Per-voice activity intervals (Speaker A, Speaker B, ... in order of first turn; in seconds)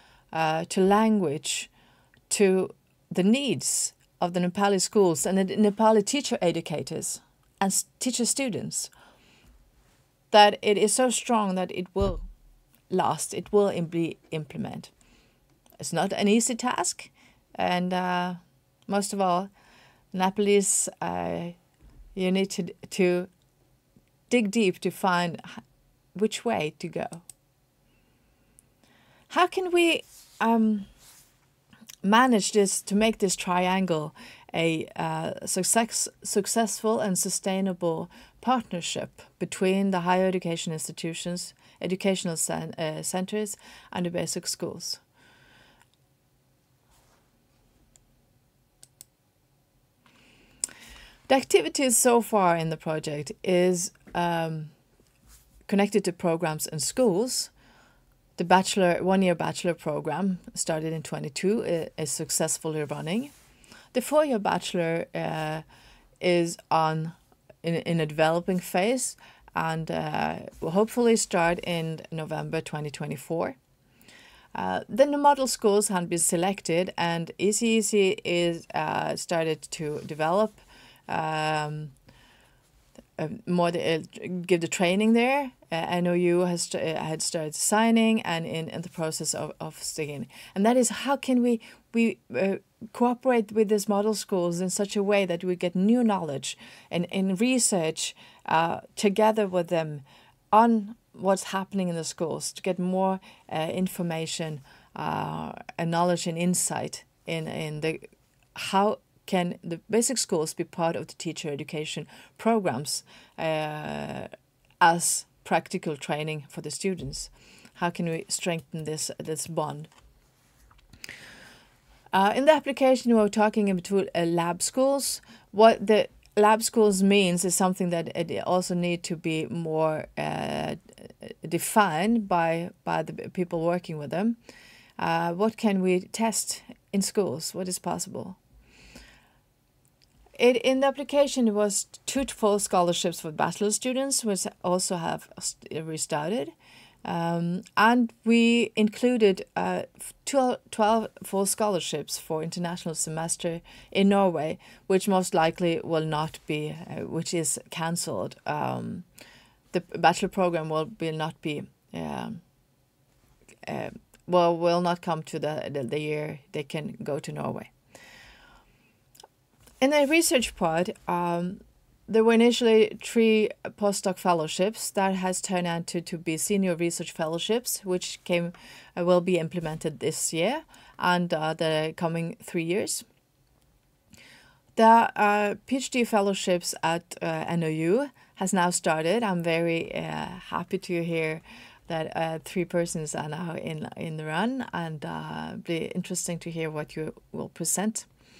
Speaker A: 0.3-1.7, 2.3-8.9, 10.3-12.2, 12.9-14.9, 15.8-19.5, 20.1-21.6, 22.1-23.3, 24.3-25.6, 26.1-27.2, 29.3-30.9, 32.0-45.0, 51.3-54.7, 55.6-57.5, 58.4-63.3, 63.9-65.6, 66.2-73.6, 74.5-81.9, 83.2-114.3, 114.8-119.9, 122.1-134.4, 135.0-138.4, 140.4-146.5, 147.0-159.0, 159.7-162.4, 163.7-167.7, 169.8-183.0, 184.8-198.1